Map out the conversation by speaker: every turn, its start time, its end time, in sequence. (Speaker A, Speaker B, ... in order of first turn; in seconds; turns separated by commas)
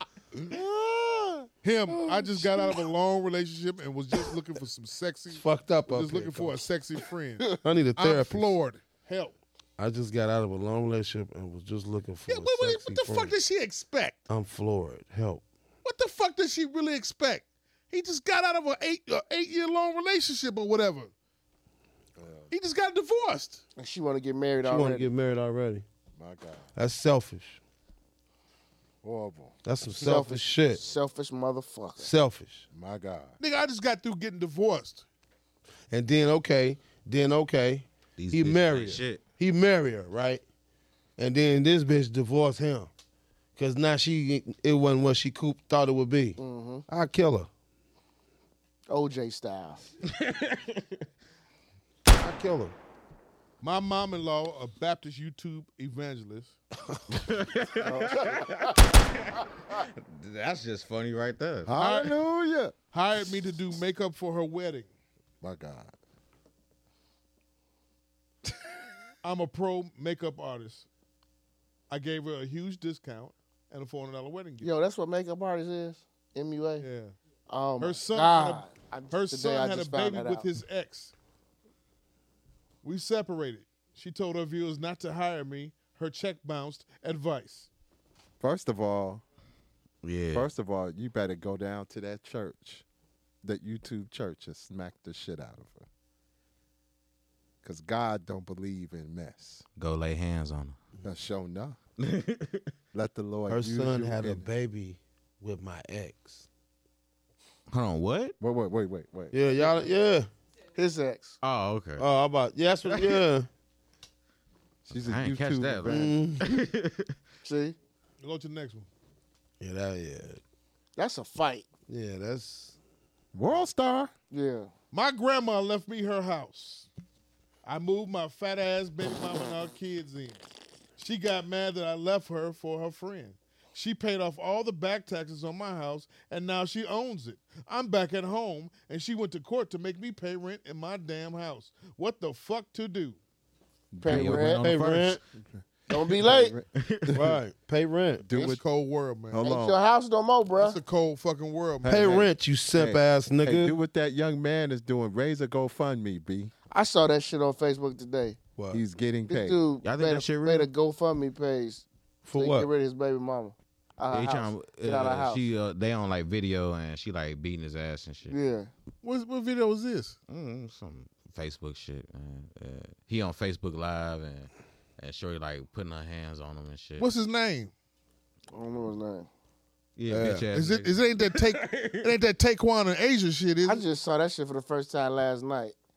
Speaker A: 0.5-1.5, Speaker B: 1.6-9.3, Speaker C: 1.9-2.8, Speaker C: 5.3-6.6, Speaker C: 7.6-8.5, Speaker C: 9.8-13.3, Speaker B: 12.3-14.2, Speaker C: 14.3-15.4, Speaker B: 15.8-21.1, Speaker D: 22.2-22.5, Speaker B: 22.5-23.6, Speaker A: 23.8-25.1, Speaker C: 24.6-25.8, Speaker D: 26.2-26.7, Speaker C: 26.8-27.6, Speaker D: 29.0-29.5, Speaker C: 29.6-30.8, Speaker A: 30.0-32.1, Speaker C: 32.0-32.6, Speaker D: 32.7-33.4, Speaker B: 33.4-35.0, Speaker C: 35.9-40.4, Speaker E: 38.2-39.2, Speaker C: 41.2-42.9, Speaker C: 43.6-47.5, Speaker A: 46.4-46.8, Speaker A: 48.9-49.9, Speaker E: 50.1-51.0, Speaker C: 52.2-52.8, Speaker B: 53.6-56.5, Speaker E: 57.1-61.8, Speaker A: 57.8-58.8, Speaker D: 61.6-62.7, Speaker B: 61.8-62.2, Speaker B: 62.9-64.9, Speaker D: 65.4-65.9, Speaker B: 69.2-70.9, Speaker B: 71.9-74.7, Speaker A: 74.6-76.8, Speaker B: 76.8-77.1, Speaker A: 77.5-80.4, Speaker B: 77.8-81.1, Speaker B: 82.8-87.7, Speaker D: 88.4-89.2, Speaker E: 90.0-90.5, Speaker D: 90.3-92.8, Speaker D: 93.4-95.8, Speaker D: 97.6-99.6, Speaker E: 99.8-100.8, Speaker D: 101.0-101.8, Speaker E: 102.0-102.7, Speaker D: 102.9-104.5, Speaker C: 103.5-106.5, Speaker E: 107.7-108.3, Speaker D: 108.4-109.3, Speaker C: 109.3-110.3, Speaker A: 110.7-111.4, Speaker E: 111.4-112.0, Speaker C: 112.0-113.5, Speaker E: 112.9-113.2, Speaker D: 114.9-116.2, Speaker E: 114.9-117.1, Speaker C: 115.9-116.5, Speaker A: 117.4-117.8, Speaker B: 118.2-118.9, Speaker C: 119.6-120.4, Speaker A: 121.0-121.7, Speaker C: 121.9-122.8, Speaker D: 123.3-124.1, Speaker A: 124.3-124.7, Speaker B: 124.9-126.9, Speaker B: 127.6-130.4, Speaker B: 131.0-143.2, Speaker D: 143.9-147.4, Speaker A: 144.0-144.6, Speaker E: 144.0-145.0, Speaker C: 144.6-145.2, Speaker A: 145.9-146.6, Speaker E: 146.7-147.2, Speaker C: 147.1-148.2, Speaker D: 148.2-148.6, Speaker B: 148.3-149.4, Speaker D: 149.3-149.8, Speaker A: 149.4-150.8, Speaker B: 150.6-152.2, Speaker D: 151.8-156.5, Speaker C: 151.9-153.7, Speaker A: 156.7-158.4, Speaker C: 158.6-158.8, Speaker D: 158.7-159.6, Speaker A: 159.3-165.5, Speaker E: 159.8-160.7, Speaker C: 162.2-162.7, Speaker E: 164.1-168.3, Speaker A: 168.3-168.7, Speaker B: 169.0-170.2, Speaker E: 170.3-177.1, Speaker B: 177.0-177.7, Speaker A: 178.5-179.3, Speaker E: 180.0-182.1, Speaker C: 180.1-180.5, Speaker B: 180.5-183.8, Speaker A: 183.6-185.7